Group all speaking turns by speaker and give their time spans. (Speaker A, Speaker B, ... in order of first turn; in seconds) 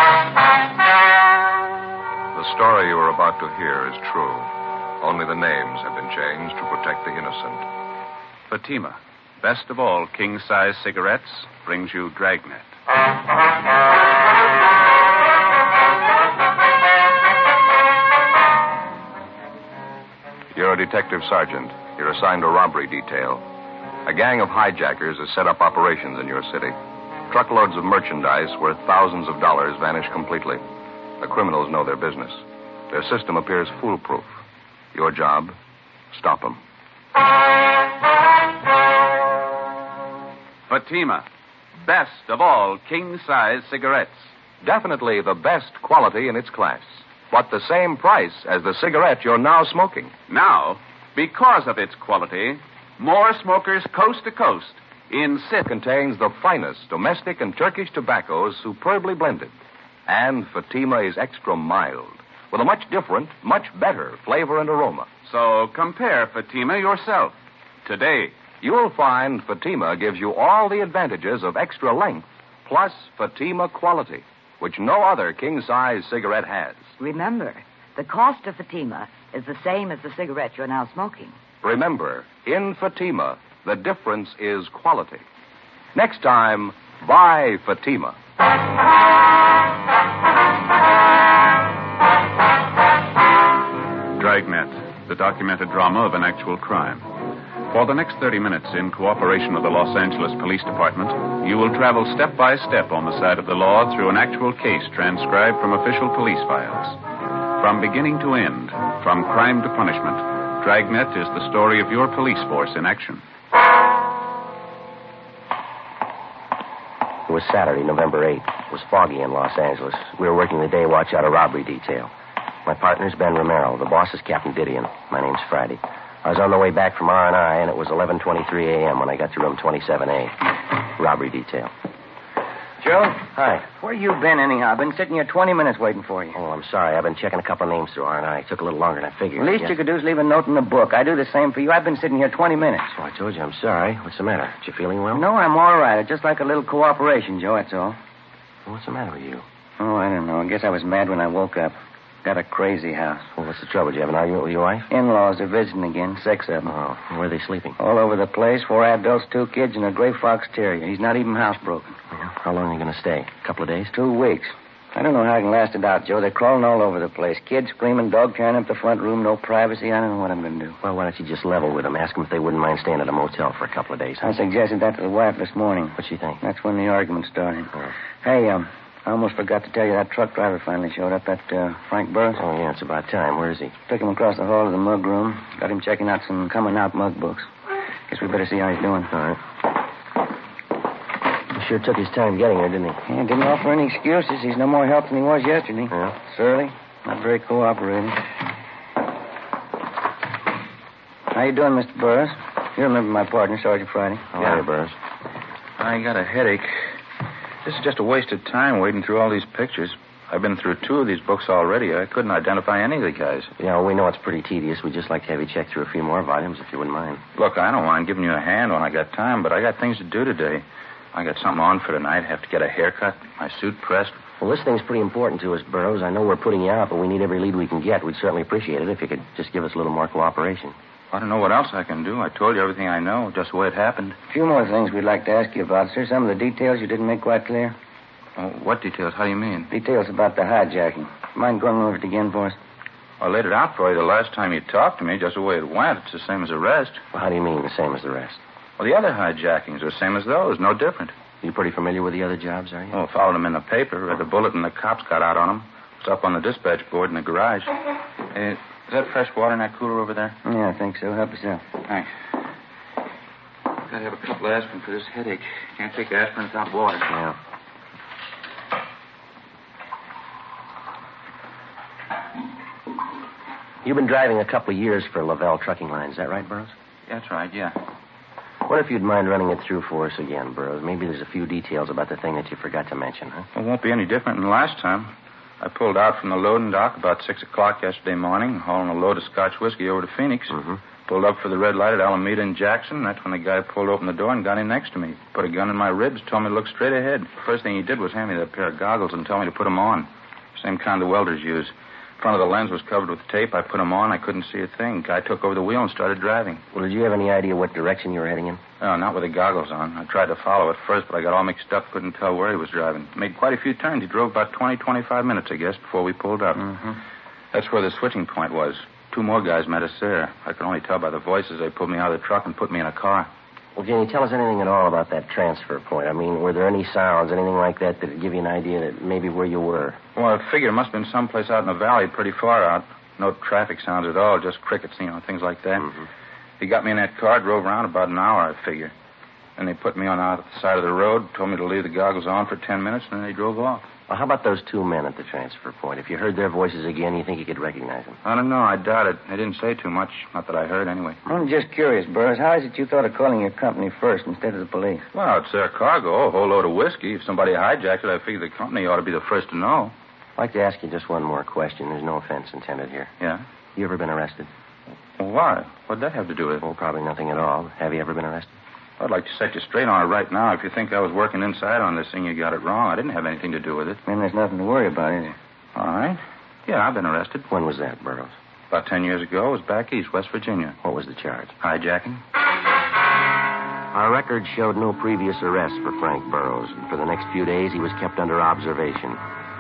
Speaker A: 2.3-4.5, 5.0-7.6, 20.5-23.4, 24.1-26.8, 27.3-30.6, 31.2-34.4, 34.9-35.6, 36.1-36.6, 44.6-50.1, 55.6-59.5, 60.1-65.1, 68.6-76.9, 81.6-85.2, 86.0-88.2
Speaker B: 8.5-12.7, 40.7-41.2, 41.8-44.3, 50.3-55.6, 65.3-67.3, 67.8-68.3, 94.2-97.0, 97.7-107.0, 107.6-113.2
Speaker C: 77.0-81.4
Speaker D: 117.3-122.1, 122.6-130.4, 130.9-131.7, 136.3-139.7, 143.0-145.2, 148.7-149.4, 153.4-154.9, 156.7-157.8, 162.1-163.9, 170.8-174.4, 176.0-176.4, 182.4-183.8, 189.1-189.4, 191.5-193.0, 204.3-205.0, 213.6-217.2, 224.4-230.8, 247.1-248.4, 251.4-253.0, 267.1-267.4, 273.8-276.8, 278.7-283.5, 306.7-308.6, 323.8-330.0, 344.1-348.2, 360.4-363.1, 363.8-364.5, 366.6-368.5, 377.5-378.4, 380.8-381.6, 383.9-389.2
Speaker E: 132.8-136.4, 139.4-142.9, 145.1-148.0, 149.8-153.3, 154.9-156.7, 157.8-161.9, 163.9-170.8, 174.2-182.4, 183.9-187.5, 188.1-189.1, 193.1-198.2, 201.3-204.6, 234.3-237.8, 239.7-242.6, 260.4-261.6, 351.2-355.1, 374.1-375.4
Speaker F: 205.8-206.8, 207.6-213.5, 217.4-224.2, 231.1-234.2, 238.4-239.7, 243.2-247.0, 248.8-251.1, 252.9-257.7, 258.3-260.4, 263.9-267.1, 277.1-277.8, 283.6-306.6, 308.8-317.0, 317.5-323.3, 330.2-335.9, 336.6-338.9, 339.6-343.9, 348.2-351.2, 355.1-359.9, 365.2-366.6, 369.0-374.0, 375.8-377.5, 378.7-380.8, 381.6-382.2